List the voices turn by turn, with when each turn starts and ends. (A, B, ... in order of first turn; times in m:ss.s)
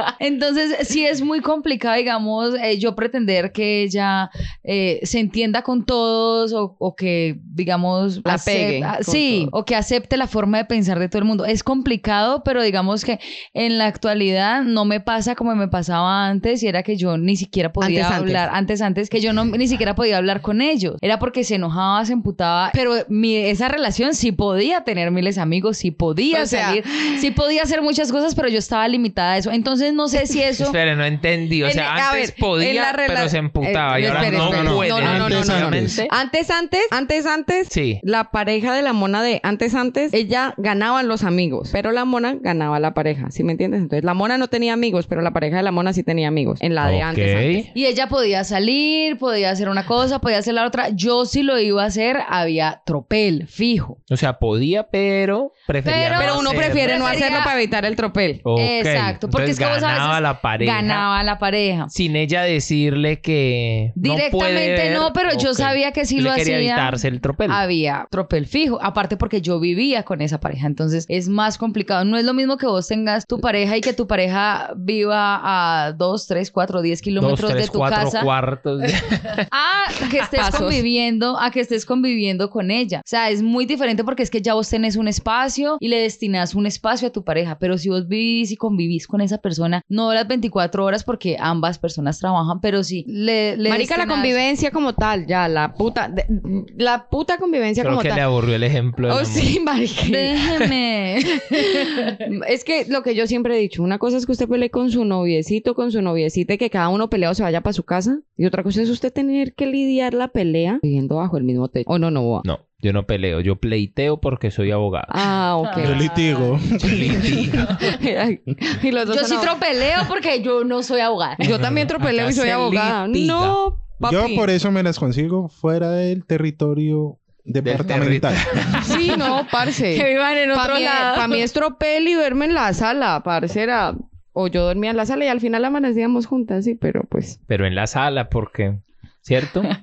0:00.2-0:30.8 A
0:08.2-0:09.5 B
0:17.8-0:18.4 B
0:26.3-0:27.2 B
0:30.6-0:36.1 C
0:31.6-0:47.7 B
0:34.0-0:36.0 D
0:37.7-0:38.0 C
0:46.8-0:47.7 C
0:47.7-0:54.0 A
0:54.1-0:57.4 C
0:55.8-0:57.5 A
0:56.2-0:58.4 B
0:58.4-1:01.1 C
0:58.6-1:01.9 A
1:01.9-1:07.6 C
1:04.0-1:18.3 A
1:17.2-1:19.4 C
1:19.5-1:34.4 A
1:20.3-1:20.8 B
1:33.7-1:38.2 B
1:37.8-1:39.6 C
1:39.1-1:40.5 B
1:40.1-1:42.2 A
1:41.5-1:52.4 B
1:52.4-1:55.4 C
1:55.1-1:56.1 B
1:55.6-1:56.5 A
1:55.8-1:57.7 D
1:56.8-1:57.9 C
1:57.7-1:59.6 B
1:59.1-2:01.5 A
2:01.4-2:04.5 B
2:01.4-2:03.6 C
2:04.0-2:08.8 D
2:07.6-2:09.1 C
2:08.7-2:11.5 A
2:08.8-2:17.4 B
2:17.5-2:19.7 C